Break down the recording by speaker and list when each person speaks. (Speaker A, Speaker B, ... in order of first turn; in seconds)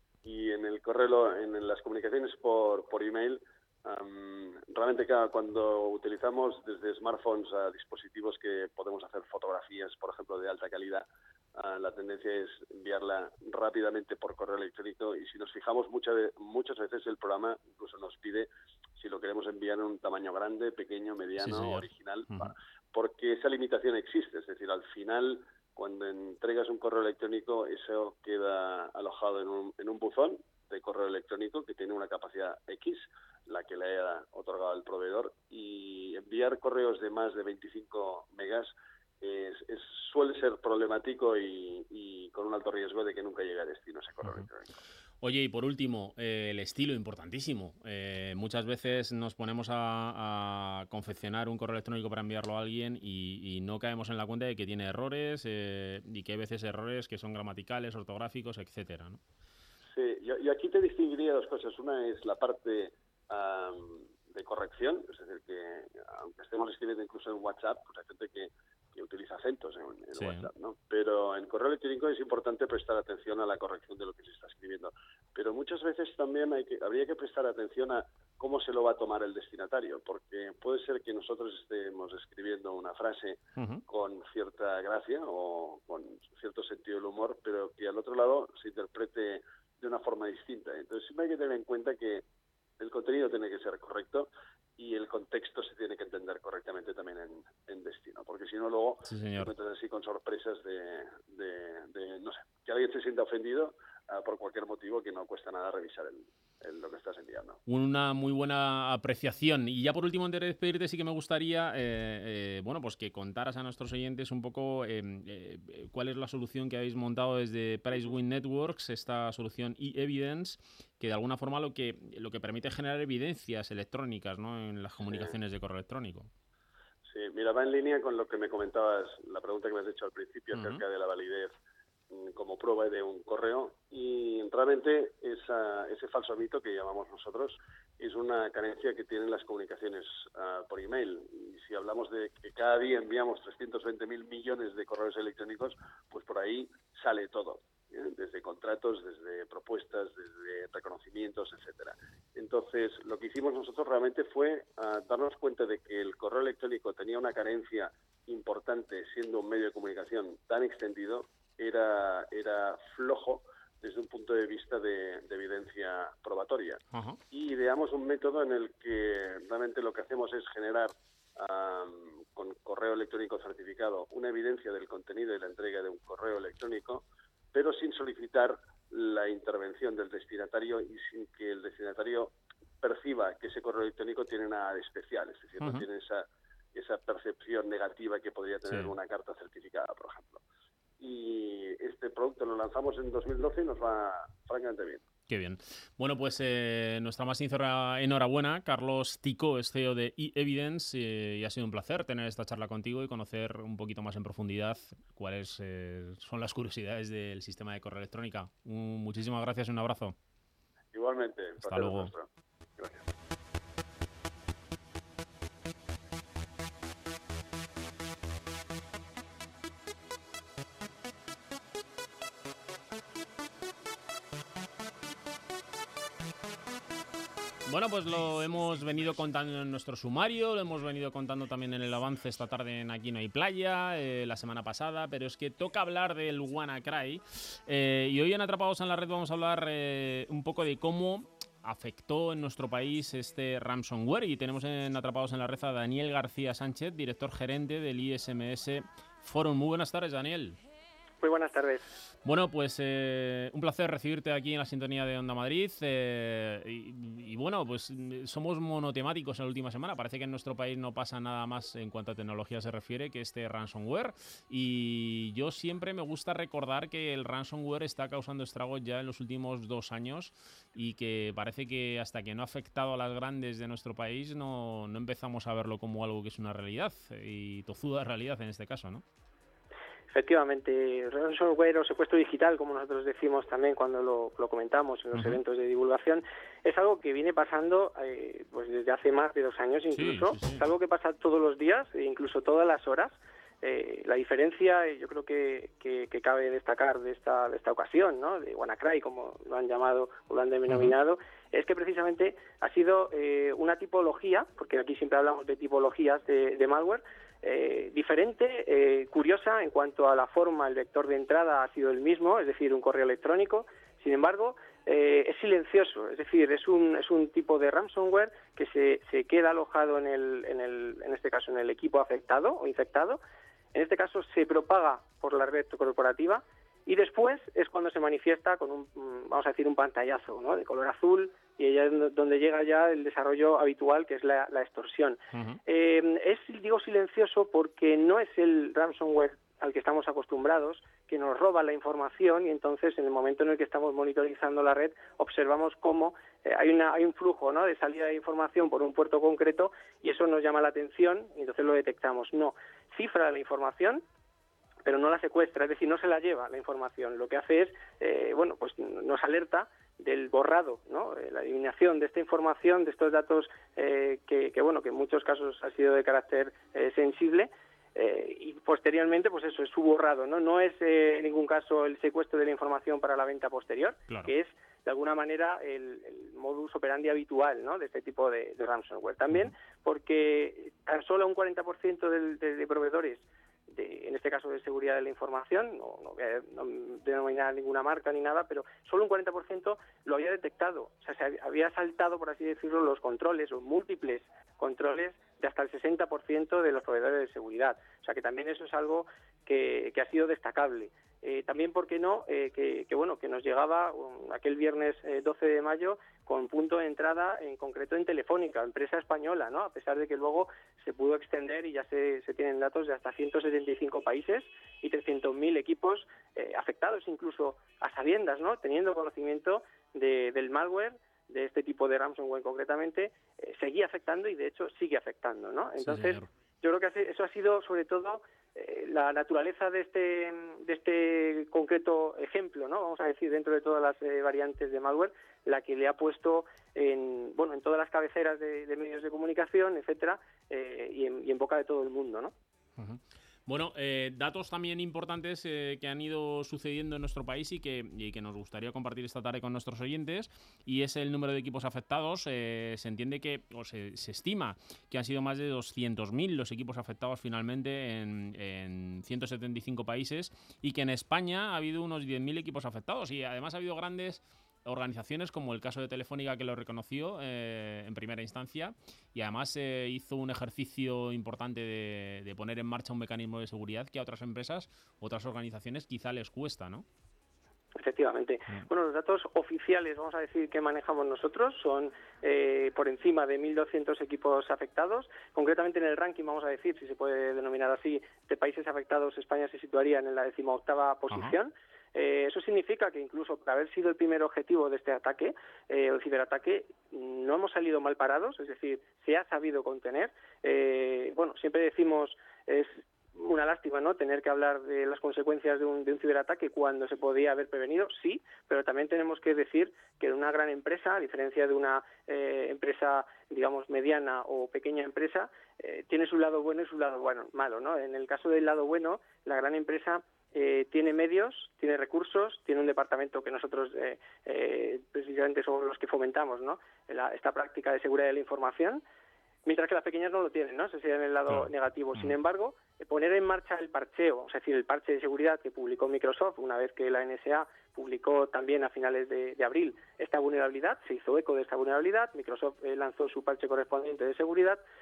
Speaker A: 0.2-44.8, 59.9-92.2, 92.8-107.6, 127.1-131.5, 132.1-190.4, 191.0-195.0, 210.9-212.3, 212.8-213.0
Speaker B: 21.4-22.5, 45.2-59.2, 70.2-70.5, 83.6-83.8, 99.1-99.5, 107.7-126.3, 130.5-130.8, 166.9-167.2, 185.6-185.8, 188.7-188.9, 195.3-210.1, 211.6-212.1, 227.7-250.6, 252.2-279.0, 285.1-285.4, 289.9-290.6, 300.7-300.9, 335.3-335.6, 425.8-426.3, 442.8-476.8, 491.1-491.4, 531.3-532.1
Speaker C: 251.2-251.8, 280.1-323.2, 323.7-354.0, 354.9-442.3, 477.8-528.8, 529.4-544.6